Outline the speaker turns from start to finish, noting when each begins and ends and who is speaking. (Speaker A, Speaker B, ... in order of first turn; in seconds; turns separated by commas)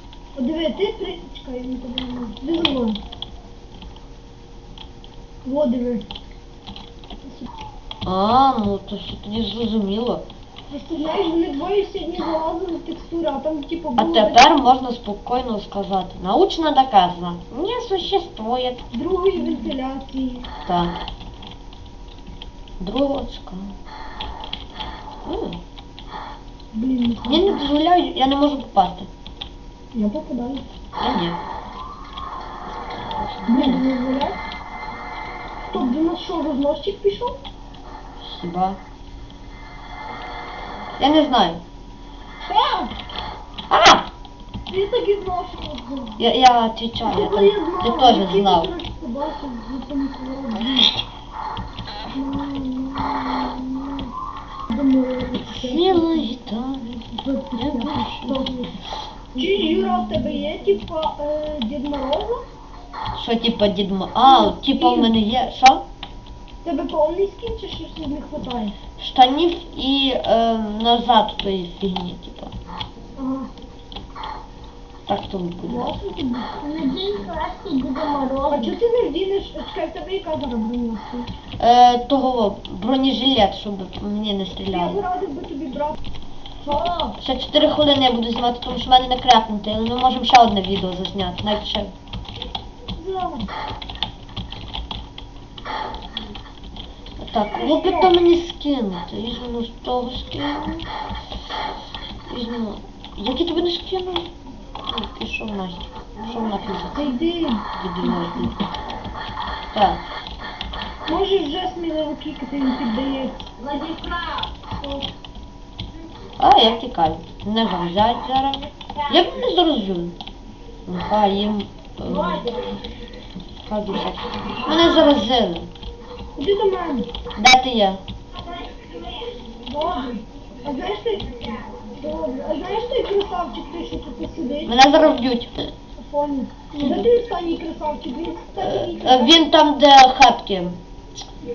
Speaker A: 0.4-3.0, Speaker A: 5.5-6.1, Speaker B: 8.1-10.3, Speaker A: 10.7-14.5, Speaker B: 14.0-18.8, Speaker A: 18.9-20.5, Speaker B: 20.7-21.0, Speaker B: 22.8-23.8, Speaker B: 25.2-25.6, Speaker A: 26.7-27.7, Speaker B: 27.2-29.1, Speaker A: 29.9-30.7, Speaker B: 31.0-31.4, Speaker B: 33.0-33.8, Speaker A: 33.5-34.4, Speaker A: 35.7-37.4, Speaker B: 38.2-38.8, Speaker B: 41.0-41.6, Speaker A: 42.4-43.0, Speaker B: 43.7-44.1, Speaker A: 44.7-46.3, Speaker B: 46.2-48.7, Speaker A: 47.0-50.9, Speaker A: 52.1-54.1, Speaker A: 54.7-56.3, Speaker B: 55.5-56.9, Speaker A: 56.8-58.7, Speaker B: 57.5-58.5, Speaker A: 59.3-62.4, Speaker B: 63.1-65.8, Speaker A: 64.2-65.1, Speaker A: 66.6-68.8, Speaker B: 69.0-72.5, Speaker A: 73.2-73.5, Speaker B: 75.1-76.0, Speaker A: 75.7-76.6, Speaker C: 76.6-78.7, Speaker A: 78.5-81.3, Speaker B: 81.6-85.0, Speaker A: 84.7-86.0, Speaker A: 86.6-87.1, Speaker B: 87.2-91.9, Speaker A: 93.0-93.5, Speaker B: 97.2-100.9, Speaker A: 97.5-98.2, Speaker B: 102.3-104.3, Speaker B: 104.8-107.2, Speaker A: 106.9-108.5, Speaker B: 107.8-108.5, Speaker B: 109.7-110.0, Speaker A: 111.1-113.5, Speaker C: 113.7-114.6, Speaker B: 116.4-120.2, Speaker B: 120.9-122.5, Speaker B: 123.6-125.7, Speaker A: 126.4-127.1, Speaker B: 127.4-128.0, Speaker C: 128.6-129.2, Speaker A: 129.6-135.2, Speaker B: 134.7-135.7, Speaker A: 136.0-139.4, Speaker B: 136.7-137.1, Speaker B: 138.6-140.8